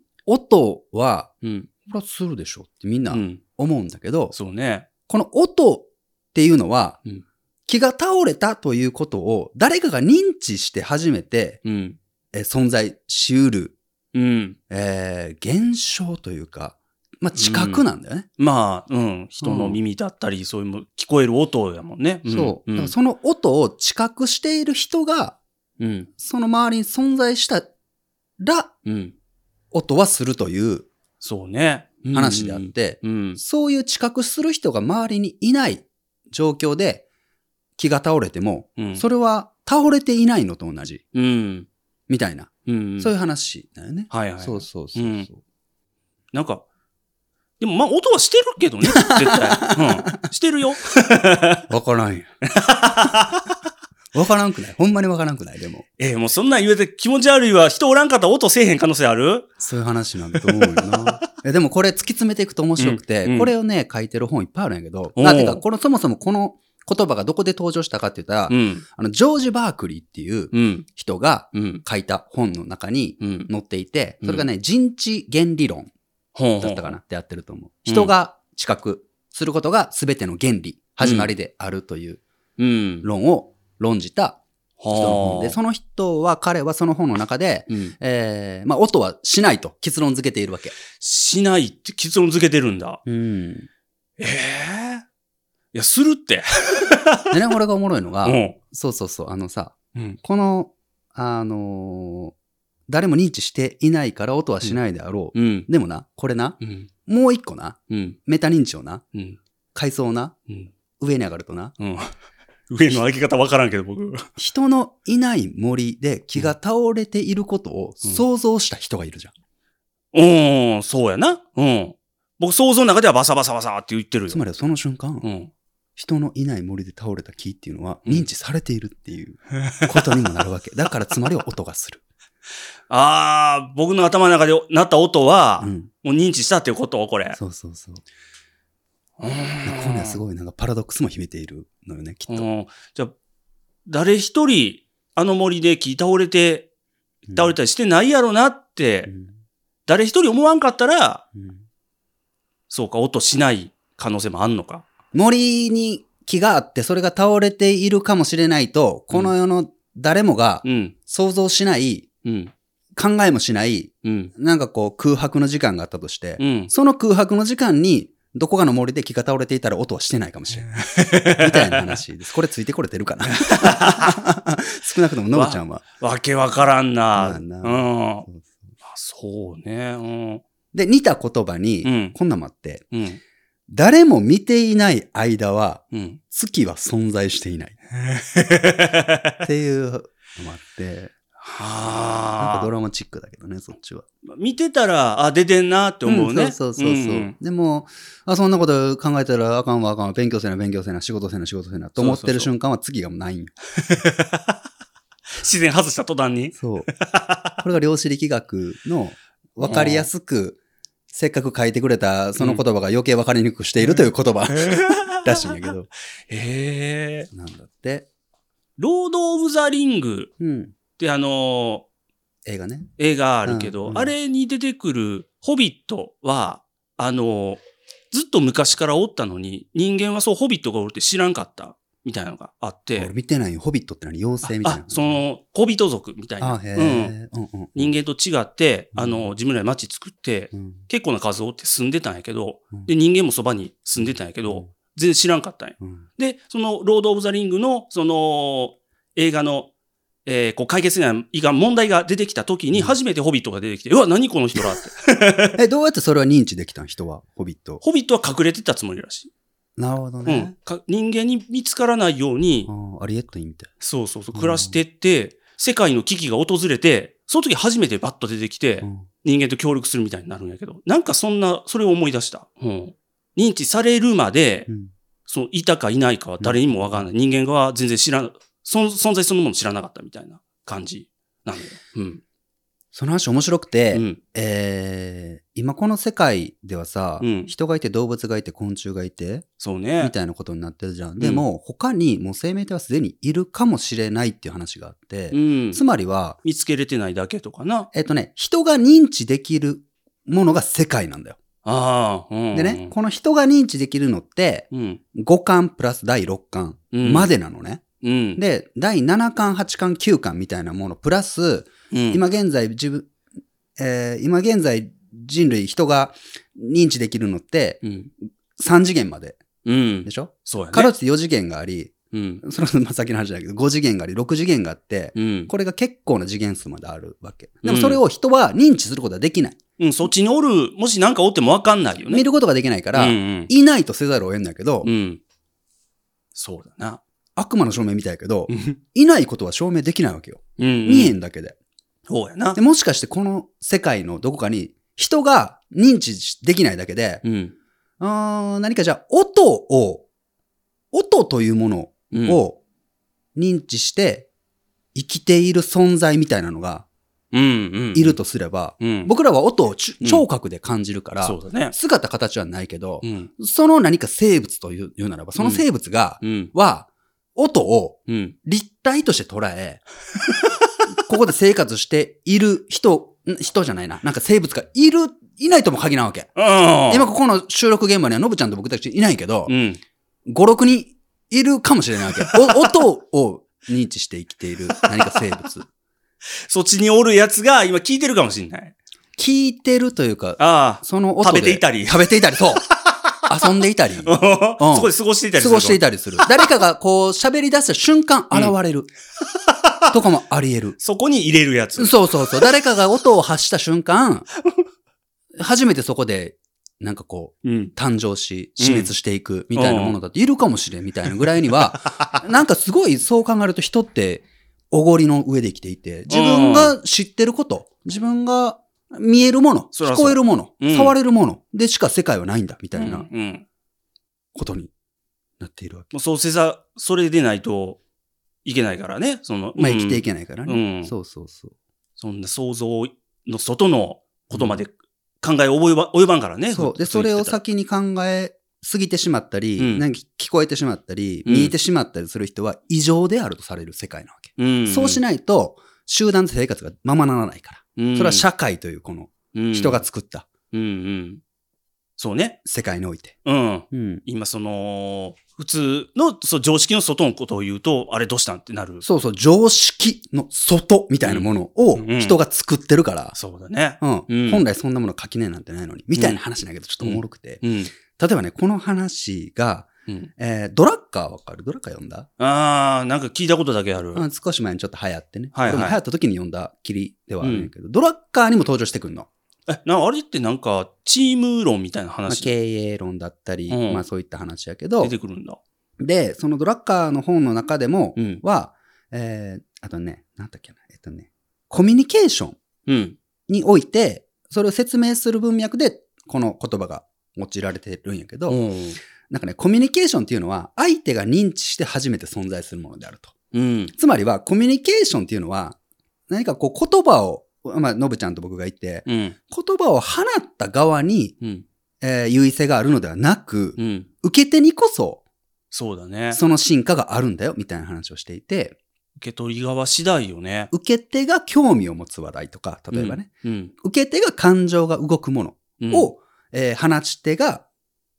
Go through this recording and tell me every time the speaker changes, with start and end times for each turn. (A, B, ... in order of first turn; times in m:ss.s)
0:00.3-0:01.3 A
0:01.4-0:01.7 B
0:01.8-0:04.3 A
0:03.1-0:03.4 B
0:04.3-0:04.9 B
0:05.1-0:07.0 A
0:07.7-0:11.6 A
0:11.6-0:12.0 B
0:12.3-0:13.8 A
0:14.1-0:14.6 B
0:14.7-0:18.3 A
0:17.4-0:17.8 B
0:18.4-0:22.9 B
0:19.4-0:19.8 A
0:22.3-0:25.4 A
0:25.8-0:26.1 B
0:26.2-0:27.7 A
0:28.4-0:28.7 A
0:28.8-0:29.1 B
0:29.7-0:30.9 A
0:31.2-0:33.4 B
0:32.1-0:37.0 A
0:37.8-0:41.0 A
0:38.8-0:39.0 B
0:41.1-0:41.7 B
0:42.1-0:45.4 A
0:42.6-0:43.1 B
0:44.1-0:45.3 B
0:46.3-0:46.6 B
0:47.6-0:51.6 B
0:48.8-0:50.2 A
0:51.7-0:52.3 A
0:52.4-0:53.5 B
0:54.1-0:55.8 A
0:56.0-0:59.5 B
0:59.6-1:15.9 A
1:00.3-1:01.2 B
1:02.8-1:03.5 B
1:05.2-1:05.6 B
1:08.5-1:08.8 B
1:10.5-1:10.8 B
1:11.5-1:11.8 B
1:13.2-1:13.5 B
1:16.3-1:17.0 B
1:16.6-1:22.2 A
1:17.9-1:18.1 B
1:21.0-1:21.3 B
1:22.6-1:23.0 B
1:23.0-1:24.4 A
1:24.8-1:25.6 B
1:24.9-1:30.8 A
1:27.7-1:27.9 B
1:30.9-1:33.0 B
1:33.0-1:33.7 A
1:34.2-1:35.0 B
1:35.7-1:37.3 B
1:37.3-1:42.3 A
1:38.2-1:38.6 B
1:42.9-1:49.0 A
1:45.3-1:45.7 B
1:46.6-1:46.9 B
1:47.9-1:48.2 B
1:49.1-1:49.4 B
1:49.7-1:50.3 A
1:51.0-1:51.8 A
1:51.8-1:52.1 B
1:52.7-1:54.3 B
1:54.4-1:59.3 A
2:00.1-2:04.4 B
2:04.3-2:05.3 A
2:05.2-2:05.5 B
2:06.0-2:12.0 A
2:09.7-2:10.4 B
2:12.9-2:17.4 B
2:15.6-2:15.9 A
2:17.3-2:18.0 A
2:19.2-2:20.2 B
2:19.6-2:22.4 A
2:22.3-2:23.1 B
2:23.8-2:26.7 B
2:27.3-2:27.6 A
2:27.3-2:29.1 B
2:29.1-2:29.3 A
2:29.9-2:31.2 B
2:31.3-2:31.6 A
2:32.7-2:34.8 B
2:35.1-2:42.1 A
2:40.6-2:40.9 B
2:42.2-2:42.5 B
2:43.0-2:50.8 A
2:44.0-2:44.3 B
2:46.4-2:46.7 B
2:50.6-2:52.0 B
2:51.3-2:55.8 A
2:53.4-2:54.2 B
2:55.3-2:58.2 B
2:57.1-2:58.7 A
2:58.8-3:00.4 B
3:00.7-3:02.8 A
3:01.8-3:02.1 B
3:02.9-3:03.2 B
3:03.7-3:07.8 A
3:05.9-3:06.2 B
3:08.0-3:09.4 B
3:09.4-3:11.1 A
3:11.4-3:12.7 B
3:12.4-3:14.0 A
3:14.2-3:17.3 B
3:16.0-3:23.5 A
3:22.0-3:22.5 B
3:23.8-3:24.6 B
3:25.3-3:27.6 B
3:26.6-3:26.9 A
3:27.6-3:30.6 A
3:29.6-3:30.1 B
3:31.1-3:35.9 A
3:32.4-3:32.6 B
3:33.8-3:35.7 B
3:36.3-3:37.3 B
3:37.3-3:38.1 A
3:38.8-3:40.3 B
3:40.4-3:40.7 A
3:41.0-3:41.8 B
3:42.4-3:42.9 A
3:43.0-3:53.1 B
3:43.4-3:44.1 A
3:53.0-3:55.2 A
3:54.4-3:57.1 B
3:56.4-3:57.9 A
3:57.8-4:09.7 B
3:58.9-3:59.3 A
4:00.5-4:00.9 A
4:04.0-4:04.7 A
4:05.8-4:06.1 A
4:10.2-4:15.6 B
4:15.5-4:17.8 A
4:17.8-4:19.3 B
4:19.8-4:20.5 A
4:20.2-4:22.7 B
4:22.6-4:23.7 A
4:23.8-4:34.7 B
4:24.3-4:24.8 A
4:28.8-4:29.1 A
4:35.3-4:42.2 B
4:36.4-4:37.0 A
4:42.9-4:49.5 A
4:43.9-4:44.2 B
4:47.2-4:47.5 B
4:49.6-4:50.1 B
4:50.0-4:56.4 A
4:51.2-4:51.4 B
4:55.3-4:55.8 B
4:56.4-4:57.9 B
4:57.9-5:01.4 A
5:01.6-5:02.9 B
5:02.5-5:07.8 A
5:04.7-5:05.0 B
5:06.9-5:07.3 B
5:08.0-5:08.4 B
5:08.4-5:13.1 A
5:11.9-5:12.2 B
5:13.8-5:17.8 A
5:17.8-5:18.1 B
5:18.6-5:19.4 A
5:19.6-5:20.9 B
5:20.0-5:29.6 A
5:22.1-5:22.4 B
5:25.1-5:25.5 B
5:27.6-5:28.0 B
5:29.8-5:32.2 B
5:32.1-5:34.9 A
5:32.9-5:33.5 B
5:34.8-5:35.2 B
5:36.4-5:37.0 B
5:37.4-5:41.6 A
5:38.5-5:38.8 B
5:40.6-5:41.1 B
5:42.1-5:42.6 B
5:42.5-5:47.2 A
5:47.2-5:47.5 B
5:48.0-5:50.0 A
5:50.9-5:52.6 A
5:52.1-5:52.4 B
5:53.4-5:54.3 A
5:54.9-5:56.9 A
5:57.3-5:58.2 B
5:57.9-6:09.8 A
5:58.8-5:59.1 B
6:01.2-6:01.8 B
6:03.0-6:03.3 B
6:05.4-6:05.6 B
6:06.2-6:06.5 B
6:08.1-6:08.4 B
6:11.0-6:16.3 A
6:16.4-6:17.1 B
6:16.9-6:19.5 A
6:19.5-6:19.8 B
6:20.3-6:25.7 A
6:22.2-6:22.8 B
6:24.9-6:25.2 B
6:26.4-6:28.8 B
6:29.2-6:32.6 A
6:30.4-6:36.6 B
6:33.3-6:38.9 A
6:39.3-6:39.9 B
6:39.9-6:40.8 A
6:40.8-6:42.5 B
6:41.8-6:44.3 A
6:45.4-7:03.1 A
6:47.4-6:47.7 B
6:48.6-6:48.9 B
6:49.5-6:50.0 B
6:56.1-6:56.8 B
6:59.8-7:00.9 B
7:02.7-7:03.4 B
7:04.4-7:04.7 A
7:05.4-7:05.9 A
7:05.9-7:07.8 B
7:08.4-7:10.9 B
7:09.6-7:11.5 A
7:12.0-7:17.4 B
7:14.3-7:14.6 A
7:16.5-7:30.3 A
7:19.6-7:19.8 B
7:21.2-7:21.5 B
7:24.4-7:25.0 B
7:27.8-7:28.3 B
7:29.3-7:29.8 B
7:30.5-7:31.2 B
7:32.0-7:32.4 B
7:32.4-7:33.2 A
7:33.2-7:38.8 B
7:33.7-7:34.0 A
7:38.8-7:43.2 A
7:41.0-7:42.2 B
7:43.1-7:44.4 B
7:43.8-7:52.1 A
7:46.8-7:47.7 B
7:52.2-7:54.0 B
7:53.9-7:59.1 A
7:55.3-7:55.8 B
7:57.2-7:57.5 B
7:59.5-8:02.3 B
8:02.1-8:04.9 A
8:03.5-8:03.8 B
8:04.8-8:05.4 B
8:05.8-8:12.4 A
8:08.0-8:08.2 B
8:12.6-8:13.0 B
8:13.3-8:18.4 A
8:18.3-8:18.8 B
8:19.1-8:23.1 A
8:23.3-8:23.7 B
8:23.8-8:25.6 A
8:26.1-8:31.1 A
8:28.9-8:29.2 B
8:31.2-8:31.4 B
8:31.8-8:35.0 A
8:33.6-8:33.9 B
8:35.5-8:36.2 B
8:36.1-8:38.6 A
8:39.0-8:40.5 B
8:40.5-8:47.4 A
8:42.7-8:43.5 B
8:45.6-8:45.9 B